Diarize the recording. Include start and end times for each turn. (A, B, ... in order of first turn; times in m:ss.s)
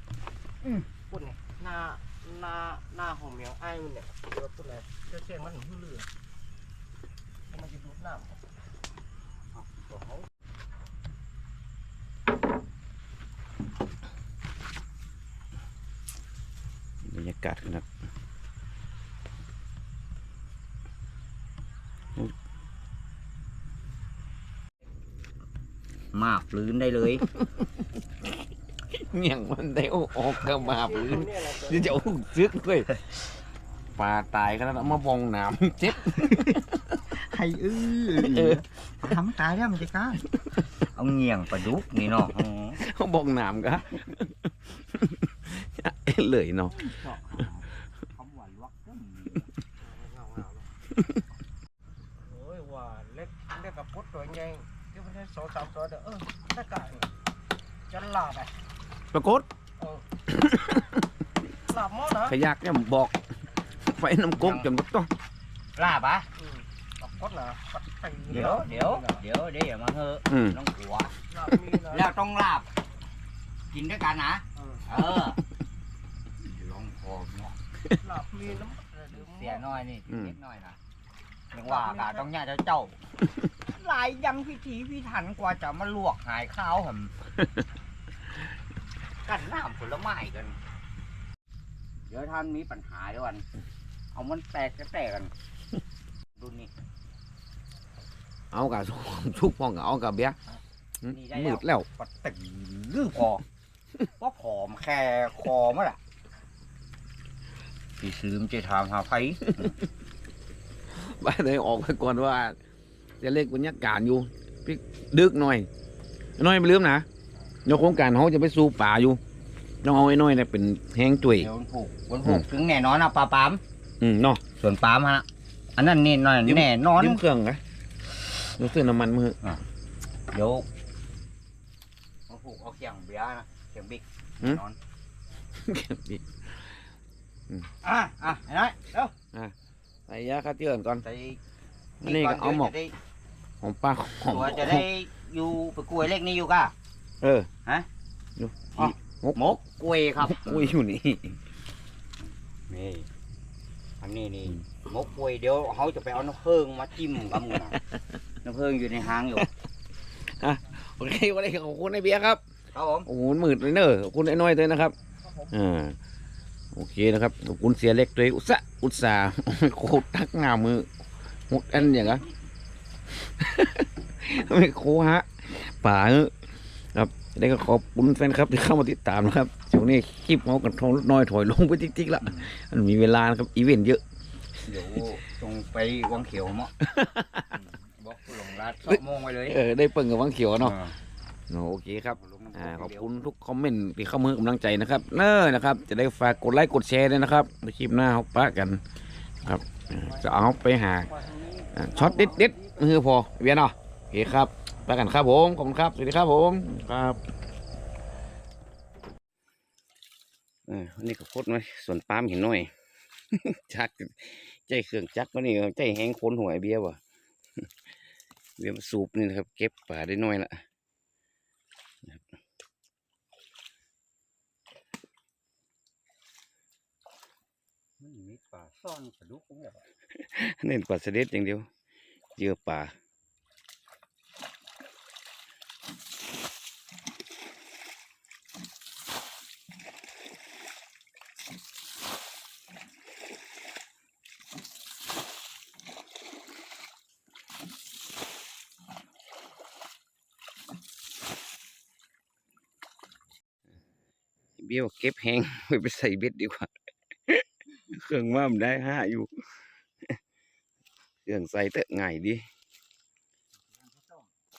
0:01.1-0:06.1 A
0:07.5-0:08.4 A
0:09.5-0:10.2 B
0:17.0-0:17.9 C
0:26.1-0:27.2 B
0:28.9-0:33.0 C
0:30.6-0:31.9 A
0:34.0-0:36.8 C
0:37.1-0:40.2 B
0:38.1-0:38.6 C
0:40.9-0:42.8 B
0:42.8-0:46.8 C
0:46.7-0:49.5 B
0:49.8-0:50.6 A
0:52.2-0:57.1 A
0:57.9-0:58.5 A
0:59.1-0:59.5 C
0:59.8-1:00.0 A
1:00.3-1:01.0 C
1:01.7-1:02.4 A
1:02.2-1:03.2 C
1:03.9-1:05.1 C
1:04.4-1:04.7 B
1:05.8-1:06.3 B
1:06.4-1:09.2 A
1:08.3-1:11.1 B
1:10.3-1:10.6 C
1:11.3-1:12.1 A
1:11.9-1:12.7 B
1:13.7-1:15.4 B
1:14.6-1:14.8 A
1:16.4-1:17.5 B
1:18.0-1:19.8 A
1:19.1-1:20.8 B
1:20.1-1:20.4 C
1:21.5-1:23.0 B
1:21.6-1:22.3 A
1:23.7-1:27.1 B
1:29.2-1:30.6 B
1:32.1-1:33.4 B
1:34.1-1:35.3 B
1:36.4-1:36.7 B
1:38.5-1:40.4 C
1:41.0-1:41.9 C
1:41.1-1:43.4 B
1:44.2-1:46.0 B
1:48.0-1:49.7 B
1:50.9-1:52.6 C
1:53.2-1:55.7 C
1:56.4-1:57.0 C
1:57.6-1:59.2 C
1:59.8-2:01.5 C
2:01.3-2:03.6 B
2:04.0-2:04.4 C
2:04.6-2:07.2 B
2:06.4-2:07.6 C
2:08.5-2:09.4 C
2:10.3-2:10.6 B
2:12.3-2:14.8 B
2:15.6-2:16.7 C
2:17.8-2:19.1 B
2:20.1-2:21.0 C
2:21.0-2:21.4 B
2:22.0-2:22.7 C
2:22.0-2:22.9 B
2:23.6-2:24.9 C
2:24.3-2:26.7 B
2:27.2-2:27.5 C
2:28.4-2:29.6 C
2:28.8-2:30.7 B
2:30.2-2:31.4 C
2:32.7-2:33.1 B
2:34.0-2:37.8 B
2:38.4-2:39.5 B
2:40.3-2:42.4 C
2:42.7-2:43.1 B
2:43.0-2:44.9 C
2:45.5-2:46.0 C
2:46.7-2:50.9 C
2:51.5-2:52.2 C
2:53.2-2:56.3 C
2:56.9-3:04.0 C
3:02.2-3:02.5 B
3:04.6-3:06.7 B
3:06.8-3:07.5 C
3:07.5-3:09.6 B
3:08.8-3:10.8 C
3:10.6-3:10.9 B
3:11.5-3:18.8 C
3:12.1-3:13.1 B
3:19.4-3:21.1 C
3:21.1-3:22.8 B
3:21.8-3:27.2 C
3:30.7-3:32.7 C
3:33.3-3:37.0 C
3:38.6-3:40.6 C
3:48.0-3:49.8 B
3:50.1-3:51.7 C
3:52.4-3:52.9 C
4:14.6-4:16.7 C
4:17.3-4:19.3 C
4:21.2-4:22.4 C
4:23.8-4:24.2 B